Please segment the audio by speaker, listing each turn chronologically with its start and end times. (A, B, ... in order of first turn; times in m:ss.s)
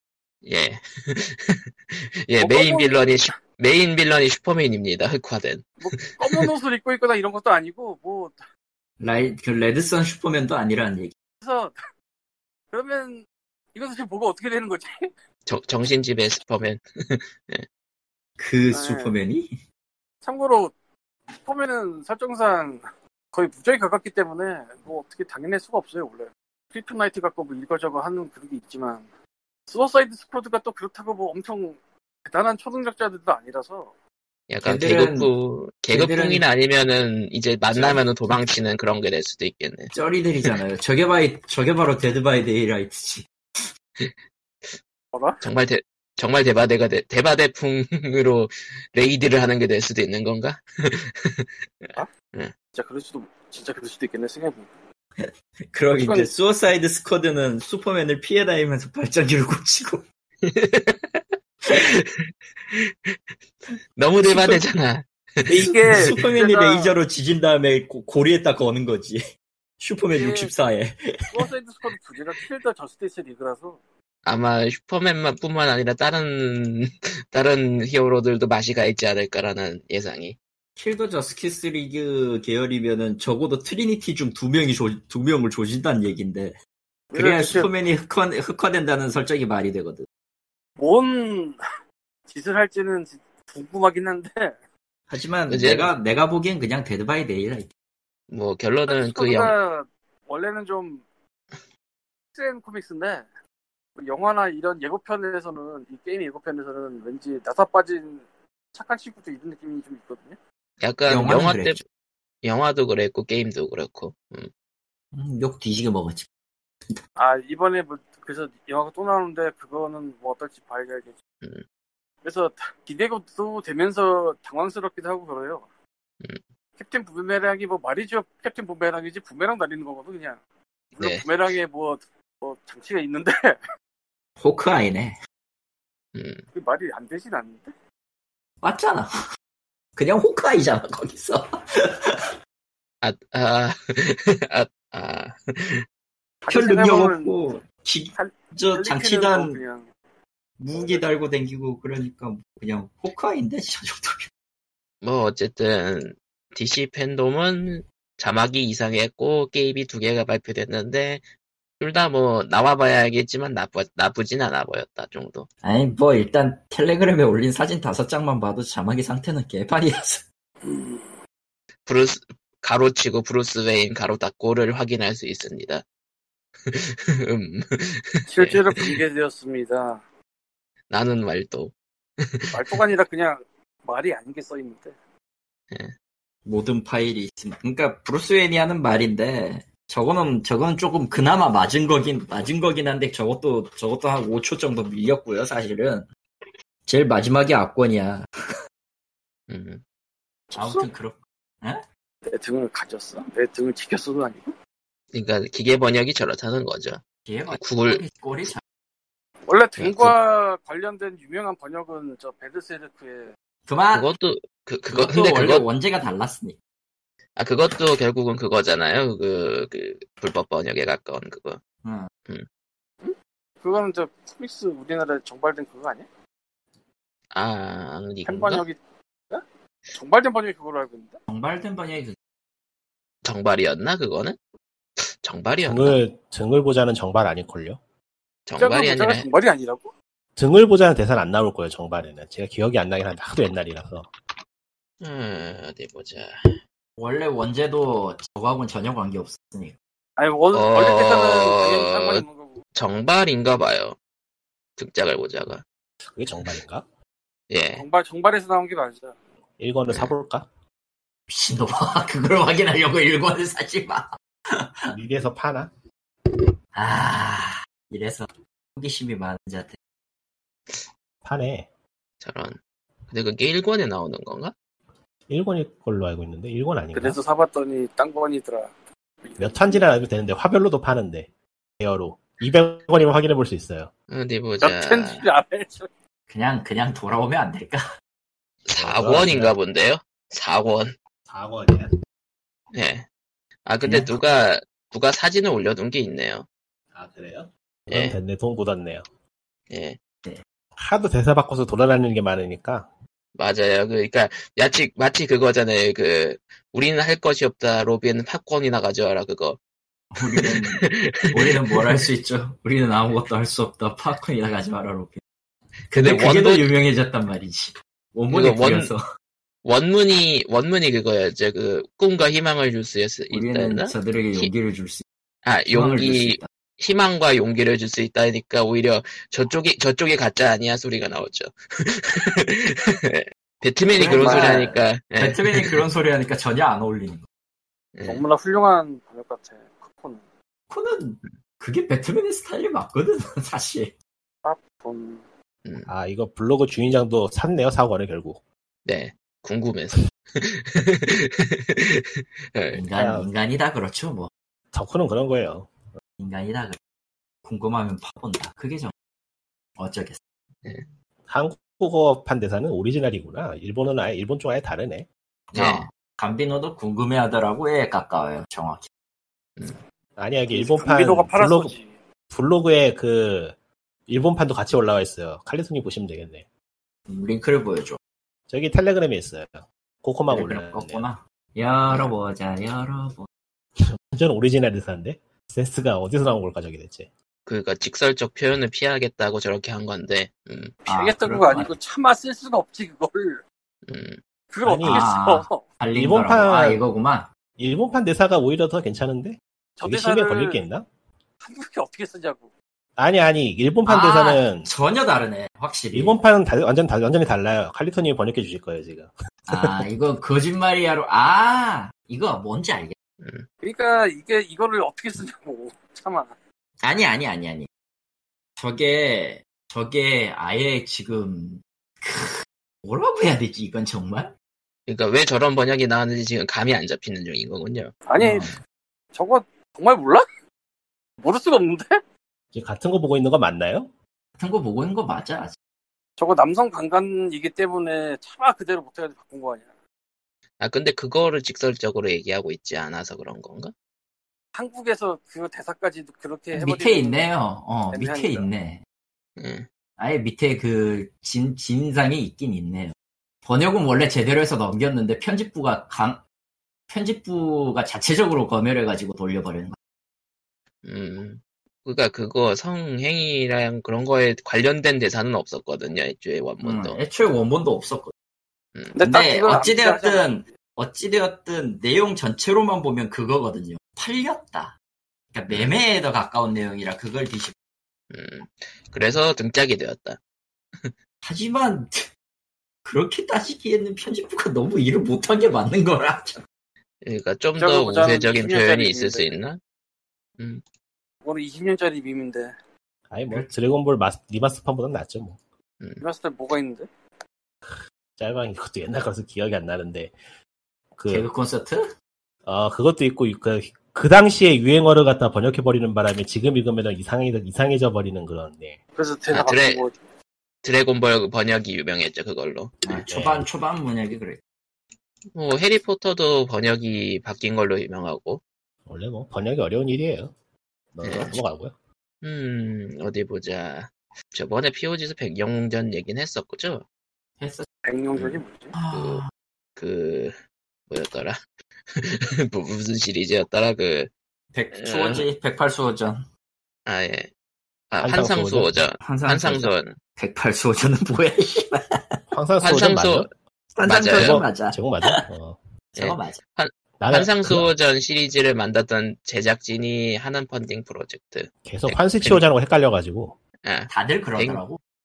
0:00.4-0:06.5 A
0:02.4-0:03.3 B
0:05.8-0:08.4 B
0:09.0-0:11.1 C
0:11.4-0:11.8 B
0:12.7-0:15.1 B
0:15.5-0:17.6 A
0:18.4-0:19.5 C
0:18.7-0:19.2 B
0:20.2-0:20.7 B
0:21.4-0:29.1 B
0:29.7-0:33.9 B
0:34.5-0:40.5 A
0:34.6-0:35.3 C
0:35.9-0:36.4 C
0:37.7-0:38.0 C
0:39.9-0:43.3 C
0:45.1-0:45.4 B
0:45.4-0:52.5 A
0:52.7-0:54.7 B
0:55.2-1:00.0 C
0:56.0-0:56.3 B
1:00.4-1:03.2 A
1:04.0-1:05.6 A
1:04.3-1:04.6 C
1:05.5-1:07.0 B
1:05.5-1:09.2 C
1:09.8-1:11.4 C
1:10.1-1:10.5 B
1:11.3-1:13.8 B
1:14.2-1:20.4 A
1:20.8-1:26.6 C
1:27.1-1:27.7 B
1:27.1-1:30.1 C
1:30.8-1:31.6 B
1:32.3-1:34.6 B
1:35.1-1:37.7 C
1:35.5-1:35.9 A
1:38.3-1:39.6 A
1:38.9-1:41.0 B
1:42.4-1:43.3 B
1:44.0-1:50.4 B
1:50.8-1:51.8 A
1:51.1-1:51.8 C
1:52.4-1:54.5 A
1:55.1-1:56.3 C
1:57.2-2:01.2 B
2:02.2-2:05.7 B
2:06.8-2:10.4 B
2:11.0-2:13.6 B
2:11.0-2:11.3 A
2:14.4-2:15.2 C
2:16.1-2:16.4 A
2:16.5-2:17.7 B
2:18.6-2:19.1 C
2:20.0-2:22.3 C
2:23.0-2:25.8 A
2:26.4-2:27.3 B
2:26.5-2:29.6 C
2:28.2-2:29.9 B
2:30.6-2:34.3 C
2:30.7-2:31.3 B
2:35.0-2:41.2 A
2:41.8-2:45.5 A
2:45.6-2:50.2 C
2:50.6-2:51.2 B
2:51.9-2:55.8 A
2:56.7-2:59.0 A
2:58.3-3:00.0 B
3:00.9-3:02.8 A
3:02.5-3:05.0 B
3:06.5-3:16.1 C
3:16.9-3:18.3 C
3:19.5-3:19.8 A
3:20.5-3:20.9 B
3:20.5-3:21.8 C
3:22.3-3:24.5 B
3:25.1-3:28.0 A
3:27.3-3:28.6 C
3:29.5-3:33.3 B
3:29.8-3:30.2 A
3:33.7-3:34.1 C
3:34.0-3:35.7 A
3:34.9-3:36.6 C
3:37.4-3:41.6 A
3:41.8-3:42.1 C
3:43.0-3:46.1 B
3:47.3-3:48.7 A
3:48.3-3:48.8 B
3:49.3-3:51.2 B
3:51.3-3:52.2 C
3:53.2-3:54.4 A
3:55.0-3:56.0 A
3:55.6-3:57.8 D
3:58.5-3:59.3 A
3:58.6-3:59.9 B
4:00.4-4:04.1 D
4:05.0-4:06.6 A
4:07.0-4:09.8 C
4:10.2-4:12.6 B
4:10.5-4:14.0 A
4:14.8-4:15.6 A
4:16.2-4:16.8 D
4:17.5-4:17.8 A
4:17.7-4:19.2 B
4:19.6-4:20.5 D
4:21.3-4:24.9 C
4:24.9-4:25.7 D
4:26.8-4:29.8 C
4:31.2-4:31.7 D
4:32.2-4:32.6 A
4:33.1-4:34.5 A
4:35.3-4:37.2 D
4:36.9-4:39.9 B
4:39.4-4:43.9 D
4:44.1-4:45.2 A
4:44.6-4:45.9 B
4:46.3-4:47.9 C
4:48.7-4:51.0 A
4:48.8-4:49.6 D
4:51.3-4:51.9 D
4:52.7-4:53.1 A
4:53.7-4:56.5 A
4:53.8-4:54.1 C
4:56.9-4:59.0 D
4:57.9-4:58.2 A
4:59.7-5:00.0 A
5:00.8-5:02.9 D
5:03.4-5:09.6 A
5:10.1-5:15.2 C
5:10.3-5:12.0 A
5:15.9-5:19.0 C
5:16.0-5:16.7 A
5:18.3-5:18.9 A
5:19.6-5:24.5 A
5:23.3-5:25.0 C
5:25.4-5:35.8 A
5:25.7-5:26.5 C
5:33.9-5:37.2 C
5:38.0-5:38.2 A
5:38.1-5:40.3 B
5:40.7-5:43.9 C
5:44.4-5:45.3 B
5:45.9-5:48.4 D
5:48.8-5:52.8 A
5:52.7-5:54.3 C
5:52.9-5:53.3 D
5:54.7-5:55.7 D
5:56.2-5:56.8 C
5:57.4-5:58.9 C
5:59.8-6:00.2 C
6:01.3-6:05.1 D
6:05.5-6:08.9 C
6:05.5-6:05.9 A
6:10.2-6:11.8 D
6:10.5-6:12.0 B
6:12.3-6:13.6 D
6:14.1-6:16.4 D
6:17.1-6:18.0 C
6:18.5-6:21.0 D
6:20.3-6:23.3 C
6:23.8-6:27.1 D
6:27.5-6:30.8 A
6:30.9-6:33.4 B
6:30.9-6:31.7 C
6:33.9-6:34.2 A
6:34.5-6:35.6 B
6:34.6-6:35.1 D
6:34.8-6:37.3 C
6:35.9-6:36.8 D
6:37.6-6:40.9 D
6:39.8-6:40.6 B
6:41.4-6:42.5 B
6:43.0-6:44.7 D
6:43.9-6:46.2 C
6:45.9-6:49.9 D
6:49.5-6:53.0 C
6:53.2-6:53.5 A
6:53.6-6:56.4 B
6:56.8-6:57.7 C
6:58.6-7:04.3 C
7:04.9-7:07.9 A
7:08.1-7:08.6 B
7:08.2-7:08.6 C
7:09.1-7:10.3 B
7:11.2-7:12.0 B
7:12.5-7:13.9 D
7:14.4-7:15.6 C
7:16.2-7:19.7 B
7:20.6-7:23.7 A
7:24.6-7:27.2 B
7:26.5-7:28.8 C
7:27.9-7:28.5 B
7:29.4-7:29.7 A
7:30.0-7:36.2 C
7:36.9-7:39.8 C
7:40.8-7:47.0 A
7:46.6-7:48.1 C
7:48.8-7:49.0 A
7:49.0-7:50.5 B
7:49.0-7:54.8 C
7:55.3-7:57.6 C
7:55.5-7:55.8 A
7:58.1-8:00.2 A
8:01.2-8:02.1 C
8:02.8-8:06.4 C
8:07.0-8:09.6 A
8:07.6-8:09.3 B
8:11.2-8:12.6 B
8:13.1-8:15.4 D
8:16.0-8:16.9 B
8:17.7-8:20.1 D
8:21.0-8:21.3 D
8:21.1-8:21.9 C
8:22.5-8:28.8 D
8:29.0-8:30.0 B
8:29.3-8:29.8 A
8:30.6-8:33.0 A
8:32.8-8:34.4 C
8:33.1-8:33.5 D
8:35.4-8:38.4 A
8:38.9-8:40.3 D
8:40.9-8:41.7 D
8:41.0-8:41.4 A
8:42.2-8:46.8 A
8:47.4-8:47.7 C
8:47.8-8:48.8 B
8:48.2-8:48.4 A
8:48.8-8:49.3 C
8:48.9-8:49.2 A
8:49.8-8:50.4 A
8:50.9-8:51.4 A
8:51.9-8:54.1 A
8:54.5-8:56.3 C
8:54.7-8:55.3 A
8:56.9-8:57.3 A
8:57.9-9:00.0 A
8:58.0-8:58.7 D
8:59.0-9:02.2 C
9:02.3-9:03.3 D
9:02.6-9:03.3 A
9:03.8-9:05.3 C
9:03.8-9:04.4 A
9:04.2-9:05.6 D
9:06.0-9:06.4 C
9:06.0-9:12.4 A
9:07.0-9:07.7 D
9:11.6-9:13.4 D
9:13.6-9:14.6 A
9:13.9-9:14.8 C